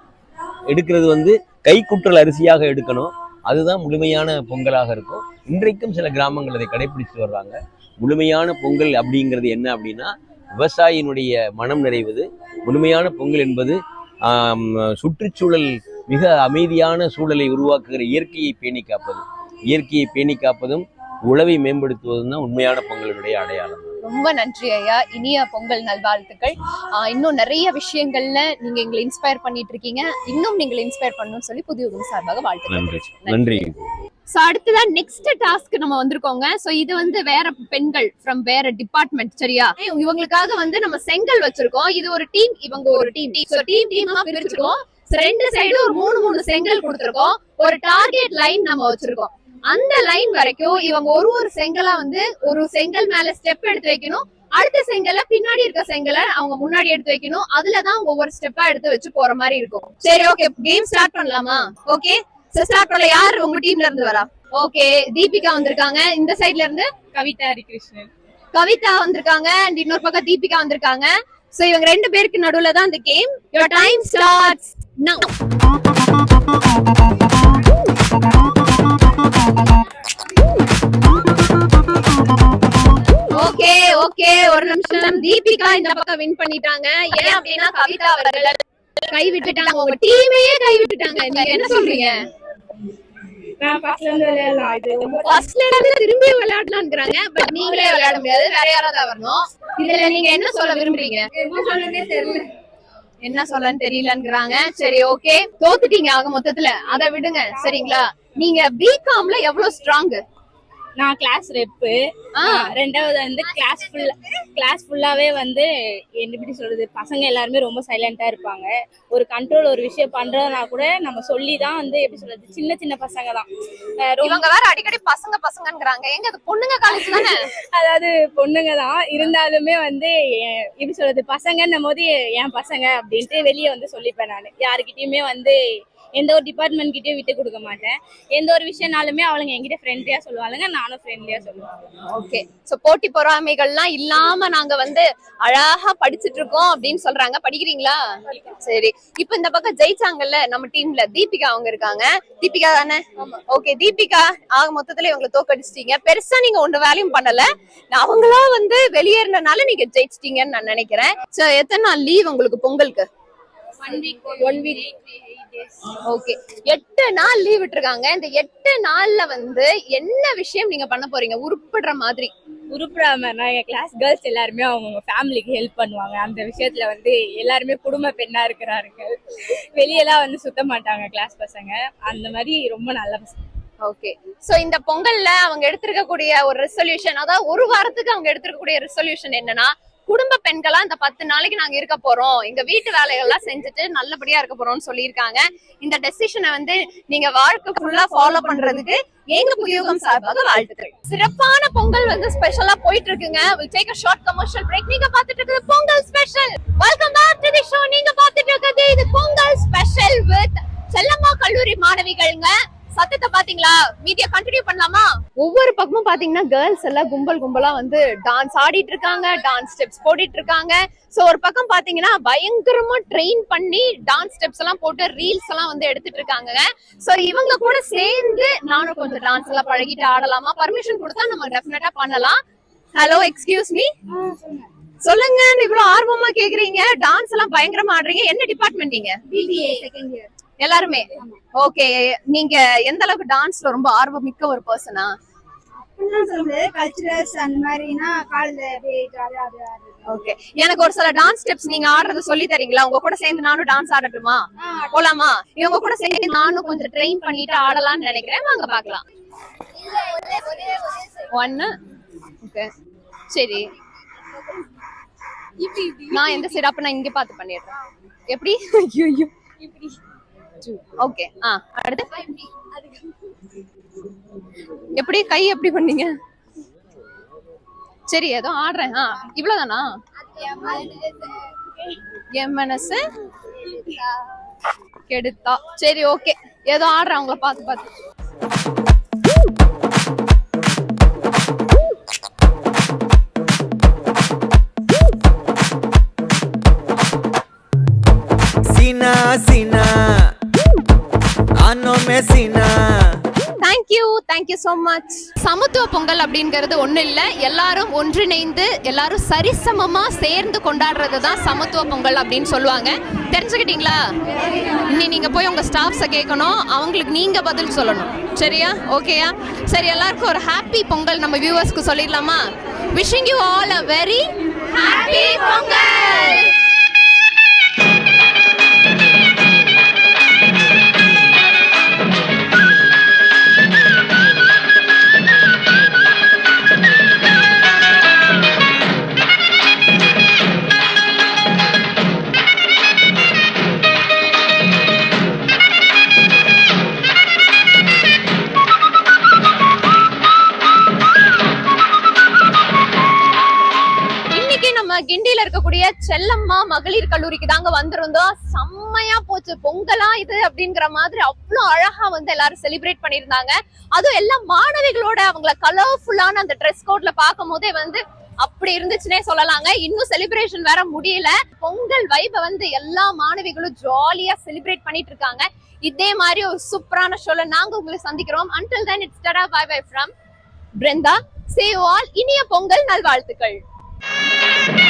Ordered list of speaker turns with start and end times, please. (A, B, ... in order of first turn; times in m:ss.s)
0:00.7-0:23.9 A
0:24.0-0:33.7 B
0:32.7-0:33.8 A
0:34.4-1:06.9 B
1:07.1-1:08.1 C
1:08.5-1:15.3 B
1:23.3-1:32.2 B
1:33.6-1:35.4 C
1:35.2-1:42.5 B
1:43.2-1:50.2 B
1:51.0-1:52.0 C
1:52.4-1:52.7 B
1:52.5-2:03.5 C
2:04.0-2:04.5 C
2:04.2-2:07.4 B
2:07.0-2:15.6 C
2:16.2-2:21.7 C
2:22.1-2:43.1 B
2:43.8-2:45.6 C
2:46.0-2:52.3 B
2:52.7-3:03.4 C
3:03.8-3:52.4 B
3:53.0-3:53.9 B
3:55.0-3:59.2 B
3:59.3-4:00.3 D
4:00.6-4:05.1 B
4:05.9-4:09.9 D
4:10.1-4:19.0 B
4:20.0-4:21.7 B
4:22.4-4:22.7 B
4:23.3-4:23.7 B
4:25.6-4:25.9 C
4:26.0-4:27.7 B
4:28.3-4:29.3 B
4:30.6-4:32.5 B
4:34.8-4:36.1 B
4:38.1-4:39.9 B
4:40.4-4:41.2 B
4:42.4-4:43.0 B
4:43.6-4:44.0 B
4:45.1-4:47.9 B
4:58.7-4:59.9 E
5:01.6-5:02.7 E
5:03.6-5:26.5 B
5:54.3-6:20.1 B
6:20.8-6:23.6 B